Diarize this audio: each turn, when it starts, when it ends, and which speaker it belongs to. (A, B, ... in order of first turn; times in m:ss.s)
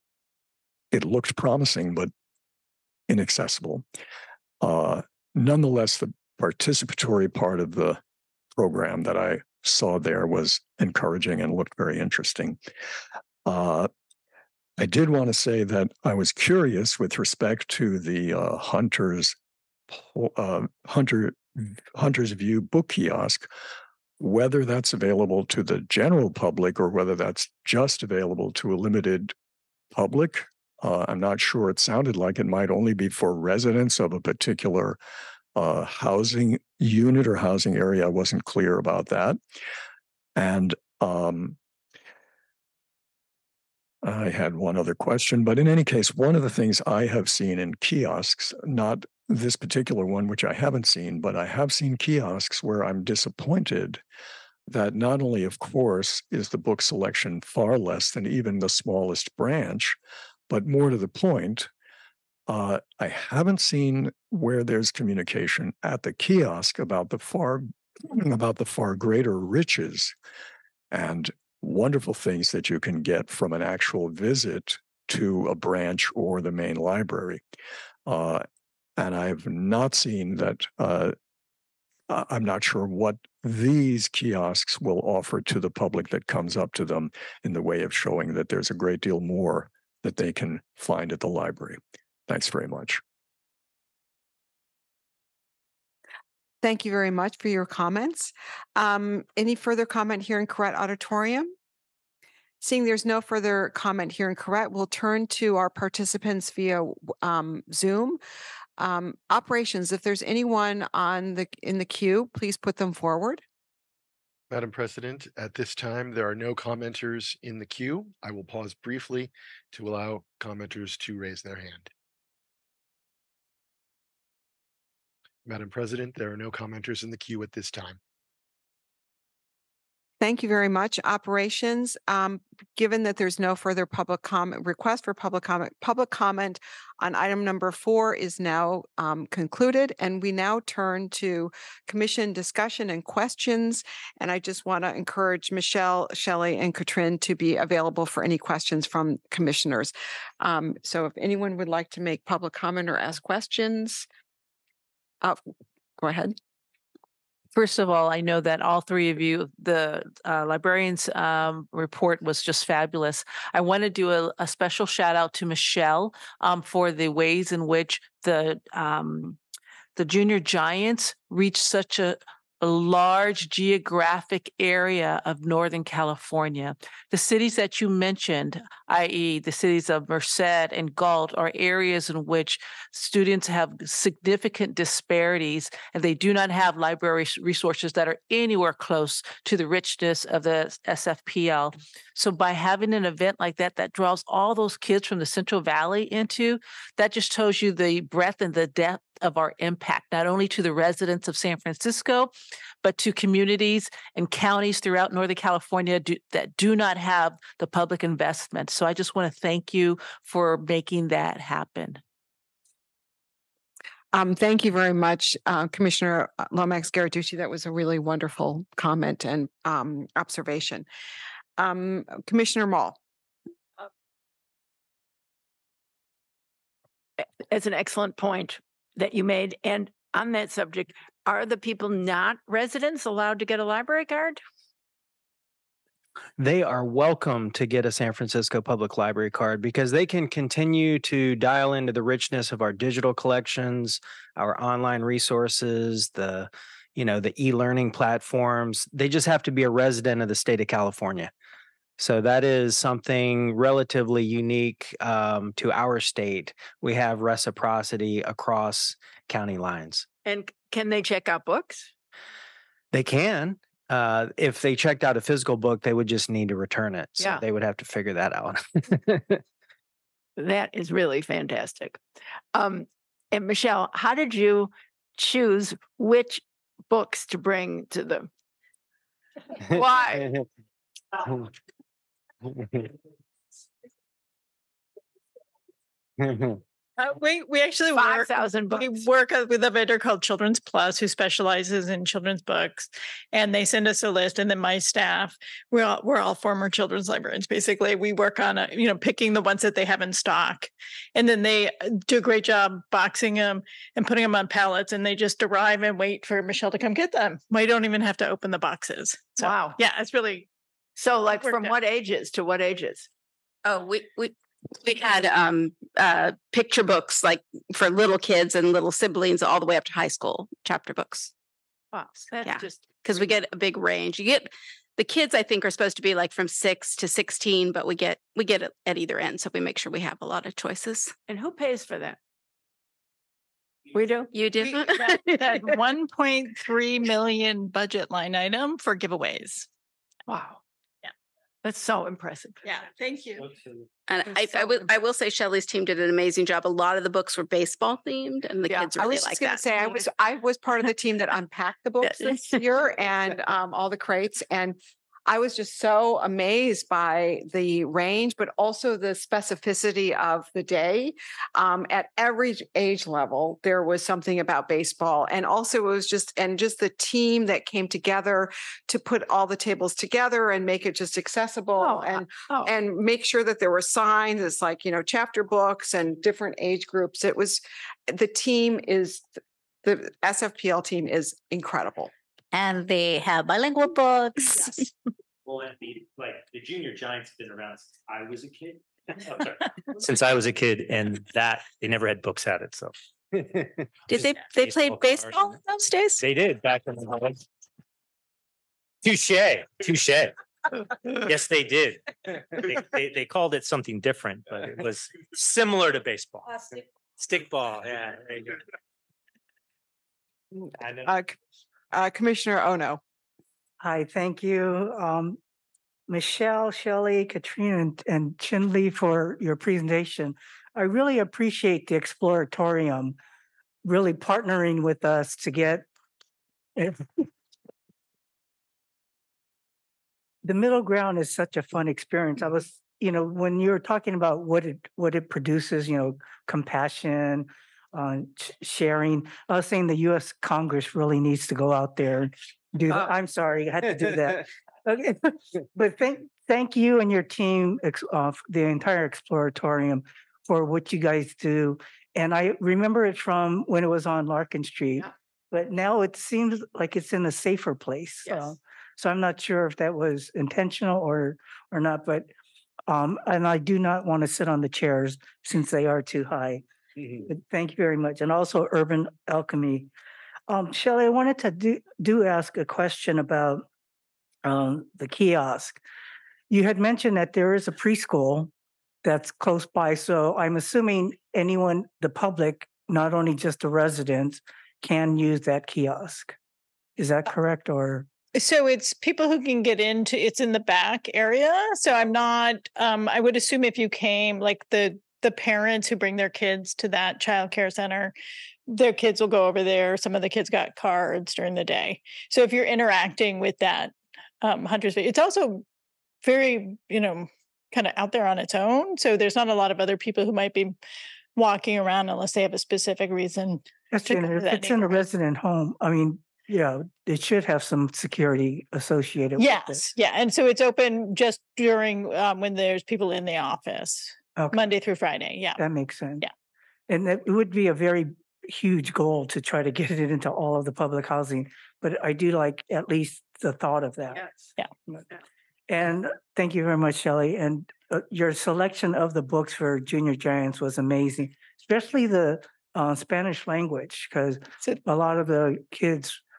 0:00.9-0:02.1 A
0:03.1-0:03.8 A
0:04.6-0:08.0 A
0:08.6-0:12.6 A
0:13.4-0:13.9 A
0:14.8-0:19.3 A
0:19.9-0:23.5 A
0:24.2-0:29.3 A
0:29.9-0:35.0 A
0:35.5-0:39.4 A
0:40.4-0:41.6 A
0:44.0-0:54.0 A
0:54.7-1:00.0 A
1:00.5-1:01.7 A
1:02.5-1:10.1 A
1:10.9-1:17.4 A
1:18.0-1:18.4 A
1:19.0-1:21.1 A
1:22.1-1:33.0 A
1:36.6-1:41.5 B
1:42.6-1:48.2 B
1:48.8-1:53.4 B
1:54.5-2:01.9 C
2:05.4-2:08.0 C
2:10.2-2:34.0 B
2:36.0-2:36.4 B
2:37.5-2:49.4 D
2:50.0-3:22.3 D
3:22.8-3:32.0 D
3:34.1-3:40.9 B
3:41.6-3:43.0 B
3:47.2-3:54.4 E
3:56.4-4:11.3 F
4:12.0-4:20.1 F
4:20.2-4:21.9 E
4:22.9-4:29.4 F
4:27.2-4:27.4 E
4:30.4-4:32.0 E
4:32.5-4:38.3 E
4:39.7-4:40.3 E
4:46.2-4:46.6 F
4:47.0-5:10.5 G
4:47.9-4:49.0 E
5:09.4-5:09.8 E
5:11.0-5:13.1 E
5:11.4-5:11.7 G
5:13.6-5:21.3 H
5:21.9-5:22.9 E
5:22.4-5:31.1 H
5:31.3-5:32.2 E
5:33.9-5:35.2 E
5:35.3-5:39.7 G
5:40.3-5:40.6 E
5:41.6-5:43.0 E
5:42.6-5:43.4 G
5:44.1-5:49.6 H
5:44.3-5:44.9 E
5:49.0-6:19.2 B
5:52.1-5:52.5 H
6:19.8-6:22.1 B
6:22.5-6:24.6 I
6:25.4-6:32.9 J
6:34.1-6:35.6 J
6:34.2-6:36.1 H
6:36.2-6:37.4 J
6:39.0-6:40.3 J
6:41.2-6:48.6 J
6:50.5-6:51.4 B
6:51.9-6:53.0 B
6:53.8-6:55.4 K
6:56.1-7:03.2 K
7:03.8-7:05.8 K
7:06.8-7:07.3 K
7:10.4-7:42.3 K
7:42.9-7:46.6 K
7:47.2-7:49.9 K
7:50.5-7:53.6 K
7:54.4-7:55.8 K
7:56.5-7:58.5 K
7:59.0-8:06.3 K
8:07.0-8:08.1 K
8:08.3-8:18.1 G
8:18.7-8:25.6 G
8:26.2-8:30.8 G
8:31.4-8:34.9 G
8:33.9-8:39.9 K
8:39.4-8:45.6 G
8:44.4-8:44.6 K
8:45.6-8:46.3 K
8:46.9-8:54.3 K
8:55.7-9:06.2 K